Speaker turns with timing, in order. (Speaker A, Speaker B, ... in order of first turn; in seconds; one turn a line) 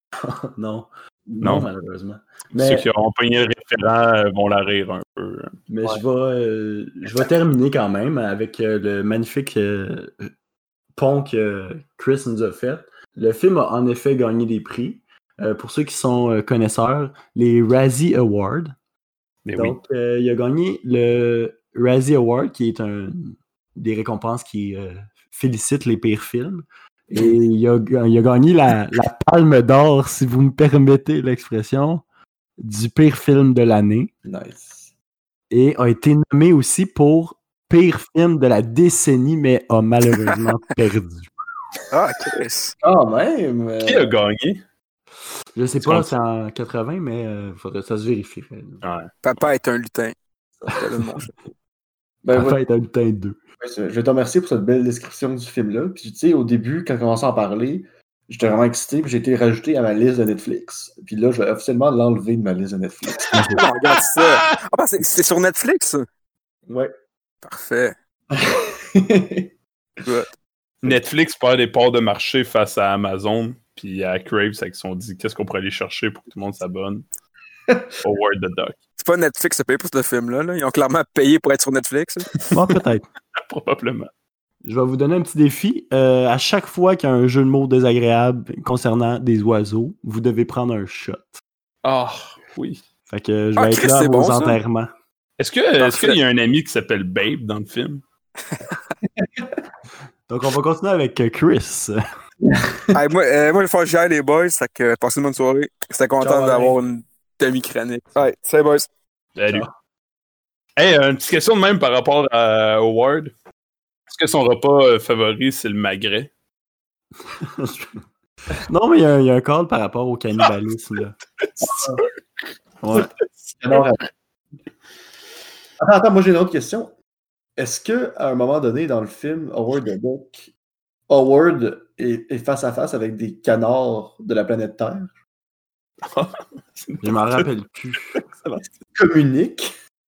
Speaker A: 0.2-2.9
Speaker B: 1.4-1.7
Speaker B: 2.6-5.6
Speaker A: 5.7-10.3
Speaker A: 11.0-18.7
Speaker B: 19.4-19.8
Speaker A: 19.6-32.0
Speaker A: 32.6-34.1
Speaker C: 34.2-34.9
Speaker A: 35.5-41.3
Speaker D: 41.9-42.8
Speaker C: 42.8-44.1
Speaker B: 43.8-44.6
Speaker A: 45.6-48.8
Speaker B: 45.8-46.1
Speaker B: 48.8-49.1
Speaker D: 49.2-50.1
Speaker D: 50.7-51.3
Speaker C: 52.2-52.6
Speaker A: 52.3-53.4
Speaker C: 53.6-63.3
Speaker A: 63.3-63.6
Speaker D: 63.5-66.0
Speaker D: 67.4-68.0
Speaker C: 68.4-69.5
Speaker D: 70.0-70.3
Speaker B: 70.8-77.0
Speaker B: 78.0-78.8
Speaker D: 79.0-82.3
Speaker A: 82.5-83.1
Speaker B: 83.3-84.1
Speaker A: 84.7-91.4
Speaker B: 91.8-92.8
Speaker A: 93.1-94.9
Speaker D: 93.6-94.6
Speaker B: 95.4-98.0
Speaker D: 95.9-96.2
Speaker C: 99.2-99.5
Speaker A: 100.3-102.0
Speaker D: 102.9-108.9
Speaker A: 106.2-106.8
Speaker B: 109.4-109.7
Speaker B: 110.8-113.3
Speaker B: 114.1-116.3
Speaker A: 117.3-118.0
Speaker A: 118.7-121.2
Speaker B: 121.4-122.0
Speaker C: 121.6-122.0
Speaker A: 122.8-123.1
Speaker C: 123.6-124.0
Speaker C: 125.8-126.9
Speaker C: 127.6-130.5
Speaker C: 131.1-135.2
Speaker B: 136.1-137.4
Speaker A: 137.0-138.2
Speaker C: 138.3-139.7